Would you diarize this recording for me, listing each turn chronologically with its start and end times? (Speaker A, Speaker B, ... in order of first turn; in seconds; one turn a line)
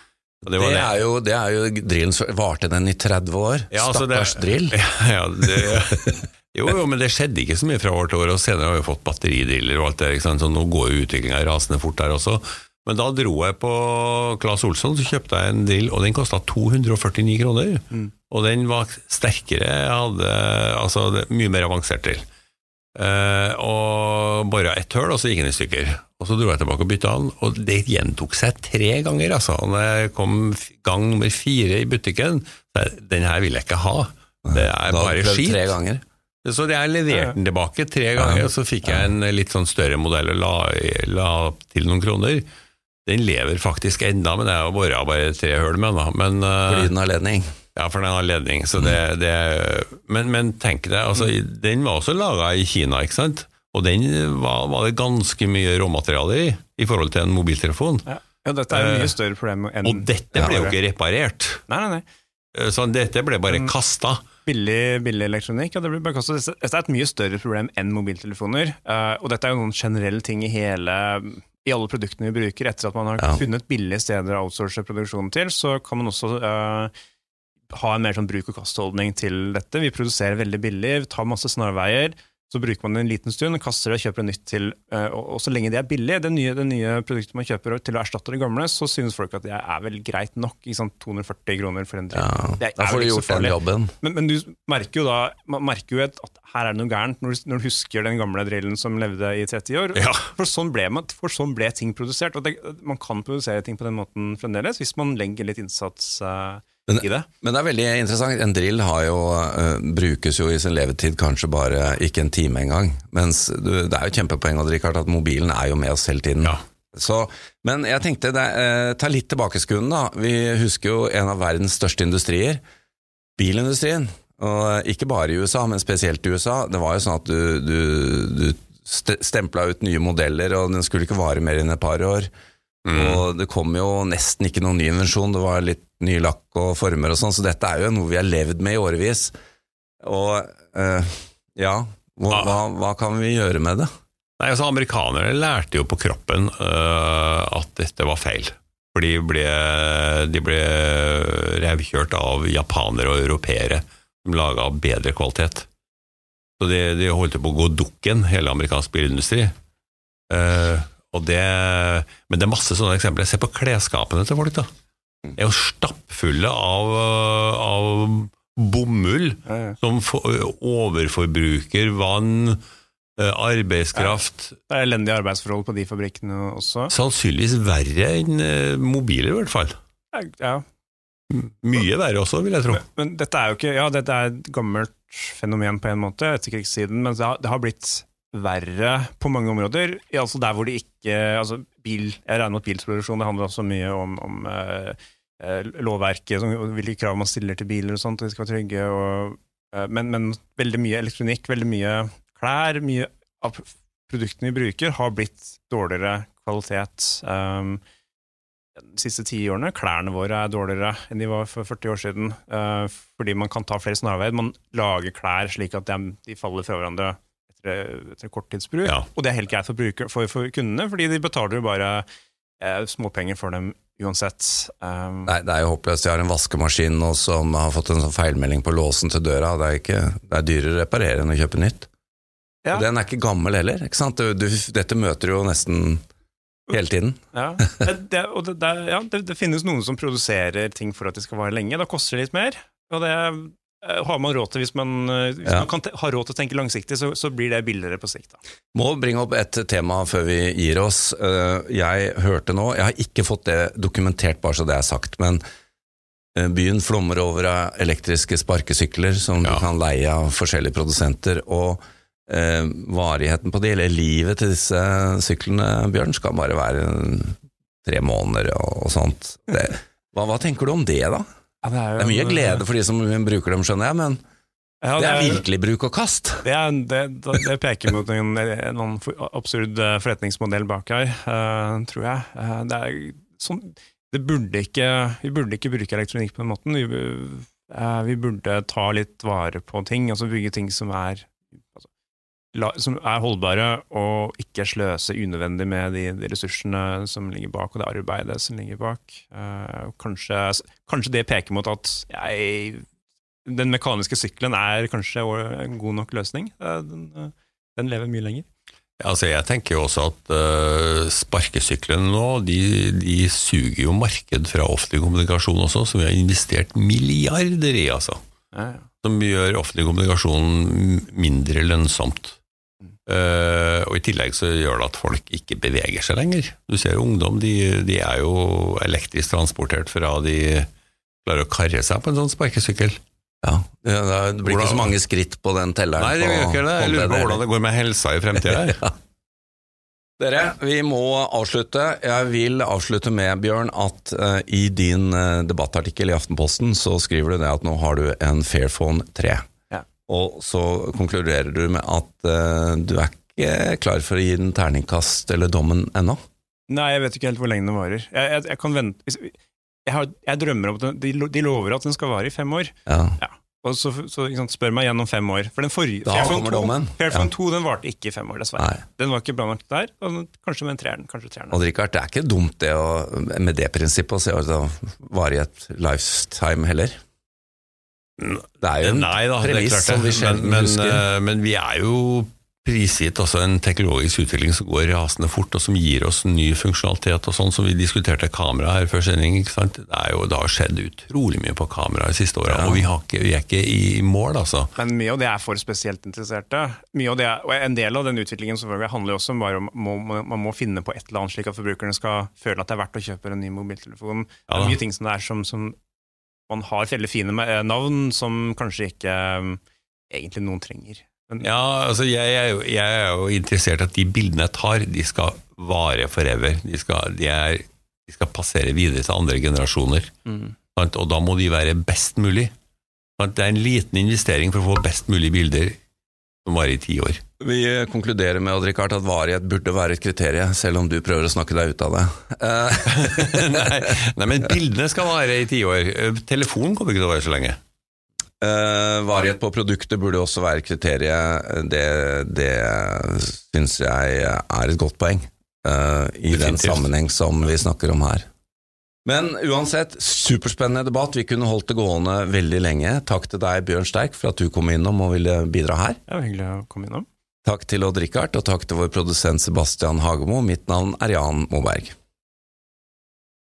Speaker A: 0.4-0.9
Speaker B: 0.5-4.8
Speaker A: 3.7-22.2
Speaker A: 23.0-35.8
Speaker B: 34.5-36.0
Speaker A: 36.4-42.5
Speaker C: 37.1-37.4
Speaker B: 38.2-39.1
Speaker A: 43.1-46.9
Speaker B: 46.7-47.5
Speaker A: 47.8-58.1
Speaker C: 58.1-60.8
Speaker A: 58.7-59.1
Speaker A: 59.8-61.6
Speaker B: 60.4-60.7
Speaker C: 61.7-62.0
Speaker A: 62.5-64.2
Speaker C: 63.5-63.7
Speaker C: 64.5-76.9
Speaker C: 77.7-107.3
Speaker B: 92.1-93.9
Speaker A: 100.0-100.3
Speaker B: 106.9-122.6
Speaker B: 123.4-132.3
Speaker A: 132.9-133.2
Speaker B: 132.9-139.3
Speaker B: 140.0-143.9
Speaker A: 144.4-155.7
Speaker A: 156.6-159.5
Speaker A: 160.3-164.7
Speaker A: 165.3-172.6
Speaker C: 169.5-169.8
Speaker A: 173.2-174.6
Speaker C: 173.9-176.9
Speaker A: 176.9-179.8
Speaker C: 180.1-180.6
Speaker A: 181.3-182.8
Speaker C: 182.8-207.8
Speaker C: 208.8-222.1
Speaker C: 222.6-225.3
Speaker B: 225.3-231.9
Speaker B: 232.7-236.0
Speaker B: 236.7-237.2
Speaker C: 237.3-248.4
Speaker B: 248.7-255.4
Speaker B: 256.4-271.3
Speaker A: 259.4-259.7
Speaker C: 271.6-272.6
Speaker B: 272.0-274.2
Speaker C: 274.8-275.4
Speaker B: 275.0-276.4
Speaker C: 276.4-291.9
Speaker C: 292.5-302.9
Speaker C: 303.5-308.5
Speaker A: 309.0-318.2
Speaker C: 318.5-318.9
Speaker A: 319.0-322.4
Speaker A: 323.1-330.7
Speaker A: 331.2-333.0
Speaker B: 333.4-337.4
Speaker A: 334.4-334.9
Speaker A: 336.0-338.9
Speaker B: 340.2-349.4
Speaker B: 350.1-356.2
Speaker C: 356.7-371.6
Speaker B: 362.9-363.2
Speaker B: 366.1-367.3
Speaker B: 371.5-377.0
Speaker A: 378.2-394.7
Speaker B: 378.6-381.1
Speaker B: 392.5-392.9
Speaker C: 394.8-405.8
Speaker A: 404.5-404.8
Speaker C: 406.5-411.5
Speaker A: 411.4-420.1
Speaker C: 420.3-420.5
Speaker A: 420.8-422.5
Speaker A: 423.2-425.8
Speaker A: 426.4-427.2
Speaker B: 427.4-433.6
Speaker A: 432.9-437.6
Speaker B: 438.4-448.3
Speaker A: 446.3-446.9
Speaker B: 449.1-456.0
Speaker C: 456.1-457.1
Speaker B: 457.4-461.9